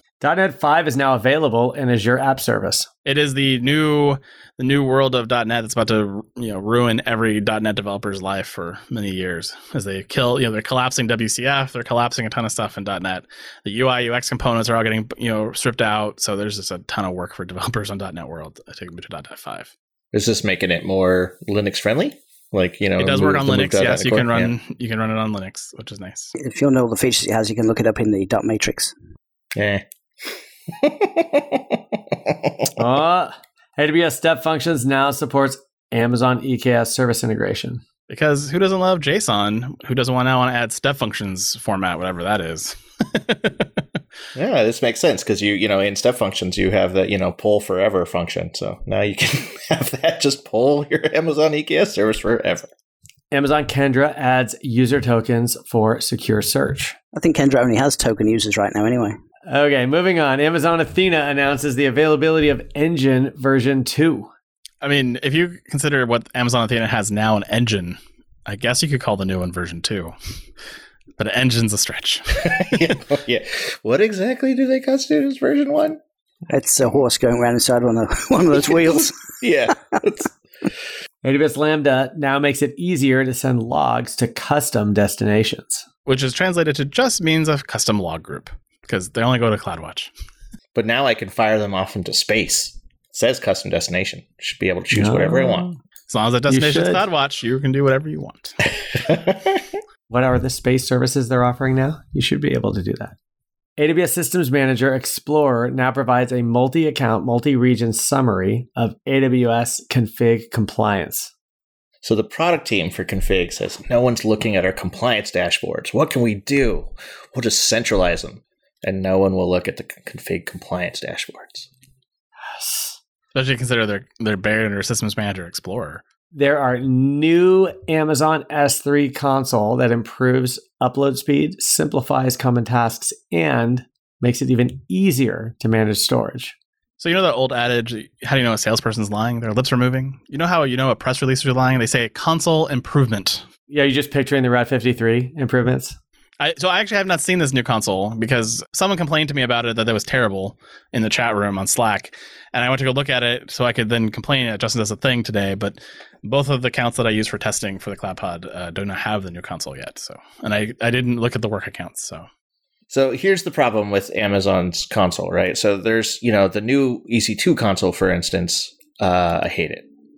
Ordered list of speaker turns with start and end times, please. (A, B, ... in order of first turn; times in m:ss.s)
0:00.2-0:02.9 A
0:03.0-0:19.7 B
0:20.1-0:24.5 C
0:23.0-0:26.3 B
0:26.4-0:28.9 D
0:29.5-0:29.8 C
0:30.7-0:32.7 C
0:32.8-0:37.8 A
0:38.1-0:43.7 B
0:44.3-0:52.7 C
0:53.3-0:56.9 A
0:57.1-0:59.2 D
0:59.5-1:04.3 A
1:04.8-1:10.1 B
1:11.2-1:13.0 B
1:12.4-1:16.0 C
1:16.5-1:19.1 D
1:19.4-1:20.3 C
1:21.2-1:25.8 A
1:26.0-1:30.1 B
1:30.7-1:35.8 C
1:34.9-1:35.7 A
1:36.1-1:38.6 B
1:36.5-1:37.0 A
1:38.9-1:39.6 C
1:40.1-1:43.2 A
1:43.8-1:51.3 A
1:52.0-2:01.7 C
2:02.4-2:03.0 A
2:03.3-2:06.0 B
2:06.3-2:16.6 A
2:17.0-2:23.4 B
2:23.7-2:26.0 A
2:26.4-2:42.3 B
2:42.9-2:49.8 C